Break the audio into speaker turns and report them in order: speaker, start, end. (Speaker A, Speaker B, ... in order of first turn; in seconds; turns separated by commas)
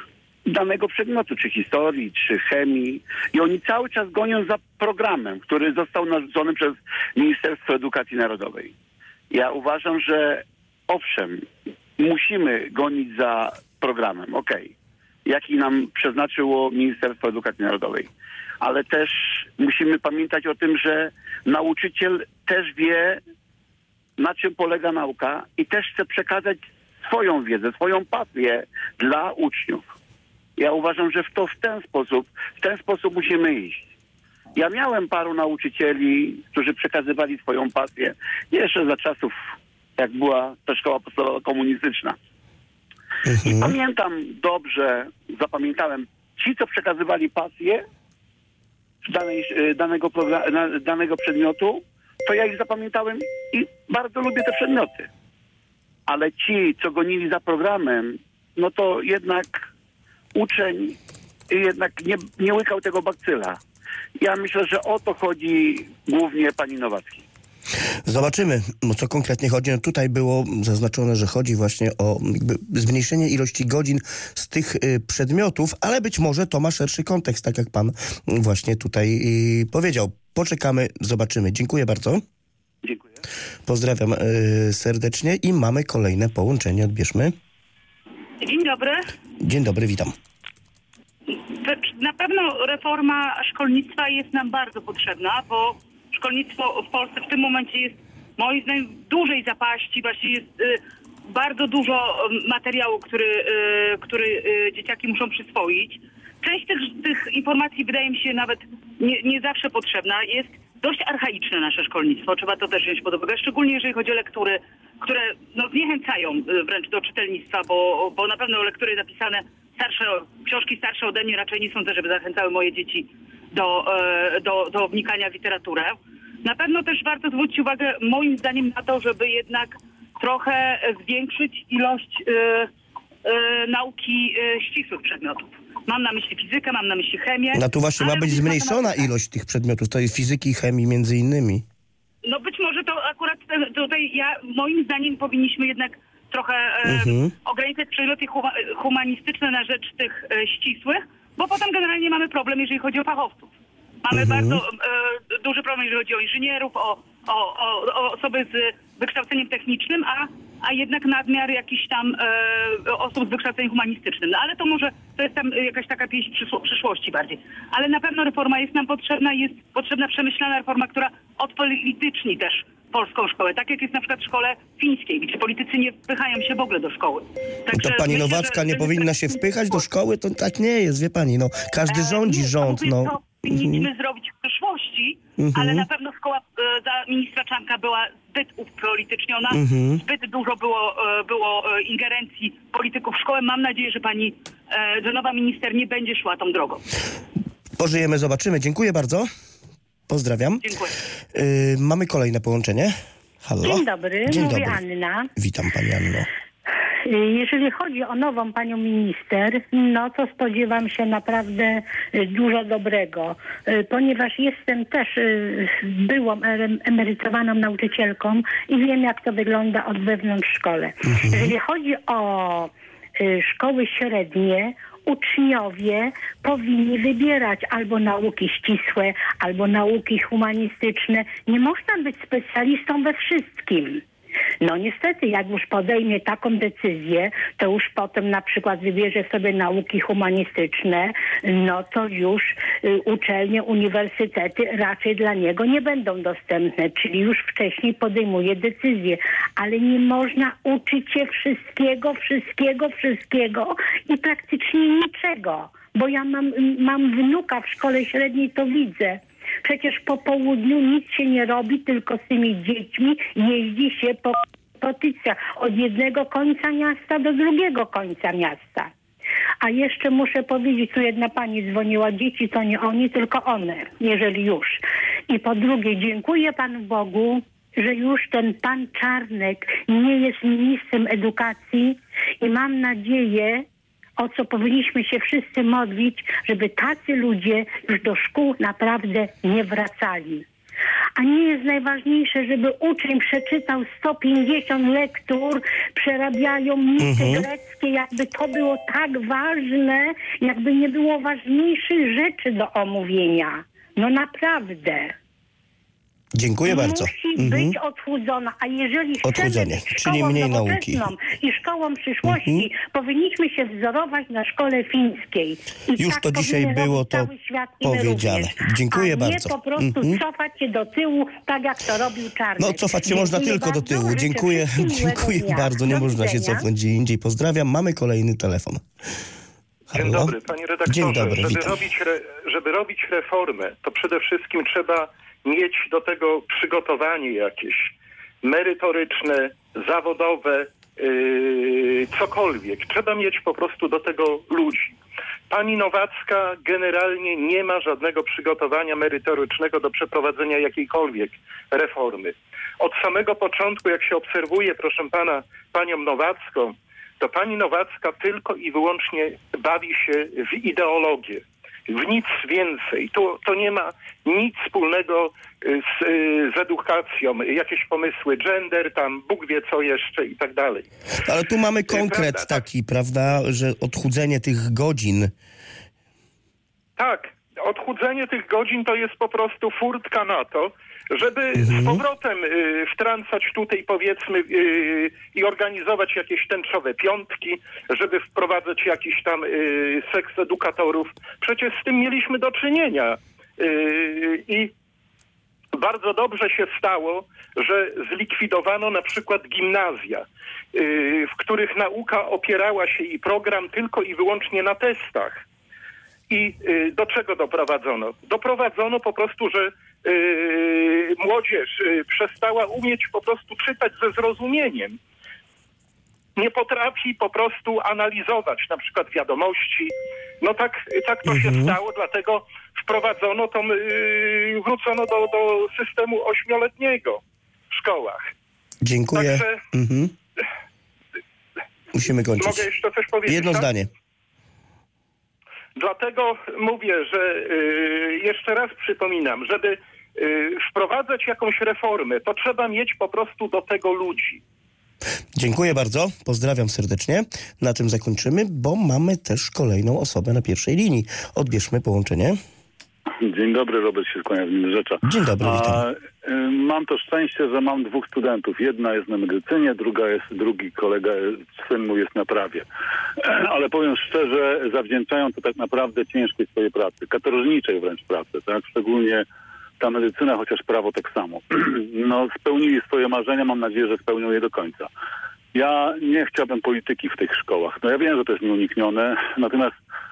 Speaker A: 0.5-8.7, Speaker A: 9.3-11.5, Speaker A: 12.0-14.7, Speaker A: 15.3-18.1, Speaker A: 18.6-23.2, Speaker A: 24.2-29.9, Speaker A: 30.6-33.9, Speaker A: 34.5-39.4, Speaker A: 40.0-42.2, Speaker B: 43.2-43.8, Speaker A: 43.4-47.9, Speaker A: 49.0-55.1, Speaker A: 56.1-59.7, Speaker A: 60.4-61.0, Speaker A: 61.5-63.6, Speaker A: 64.2-67.3, Speaker B: 68.1-82.2, Speaker B: 83.7-87.3, Speaker C: 88.4-89.0, Speaker B: 89.4-90.2, Speaker C: 91.3-132.7, Speaker C: 133.2-139.1, Speaker B: 137.6-141.7, Speaker C: 142.2-153.5, Speaker B: 146.9-147.3, Speaker C: 154.1-179.8, Speaker B: 154.1-154.6, Speaker B: 177.7-183.8, Speaker C: 181.9-196.8, Speaker B: 185.4-185.8, Speaker B: 189.5-190.0, Speaker B: 197.8-199.3, Speaker B: 200.1-200.6, Speaker C: 200.6-200.9, Speaker B: 201.3-202.9, Speaker B: 203.4-204.8, Speaker D: 203.6-205.3, Speaker B: 205.4-206.3, Speaker D: 207.1-234.0, Speaker B: 221.1-221.5, Speaker D: 234.6-268.9, Speaker D: 269.6-283.7, Speaker D: 284.2-290.4, Speaker D: 291.2-305.1, Speaker B: 297.0-297.5, Speaker B: 306.4-307.7, Speaker D: 306.7-326.6, Speaker B: 309.2-311.0, Speaker B: 312.3-312.7, Speaker B: 316.0-317.3, Speaker B: 317.8-320.2, Speaker B: 322.6-328.9, Speaker B: 329.9-331.8, Speaker E: 329.9-345.0, Speaker E: 345.5-370.9, Speaker B: 371.2-375.3, Speaker E: 371.9-372.6, Speaker E: 377.0-394.7, Speaker B: 381.6-382.0, Speaker E: 395.8-405.4, Speaker E: 406.3-415.0, Speaker E: 416.4-428.3, Speaker B: 421.3-421.8, Speaker B: 428.8-430.1, Speaker E: 429.1-429.6, Speaker B: 431.9-432.7, Speaker E: 432.4-433.7, Speaker B: 433.3-433.9, Speaker E: 435.8-444.4, Speaker B: 445.4-452.4, Speaker F: 453.2-462.7, Speaker B: 455.0-455.9, Speaker F: 463.2-469.2, Speaker F: 469.8-474.9, Speaker F: 475.5-479.7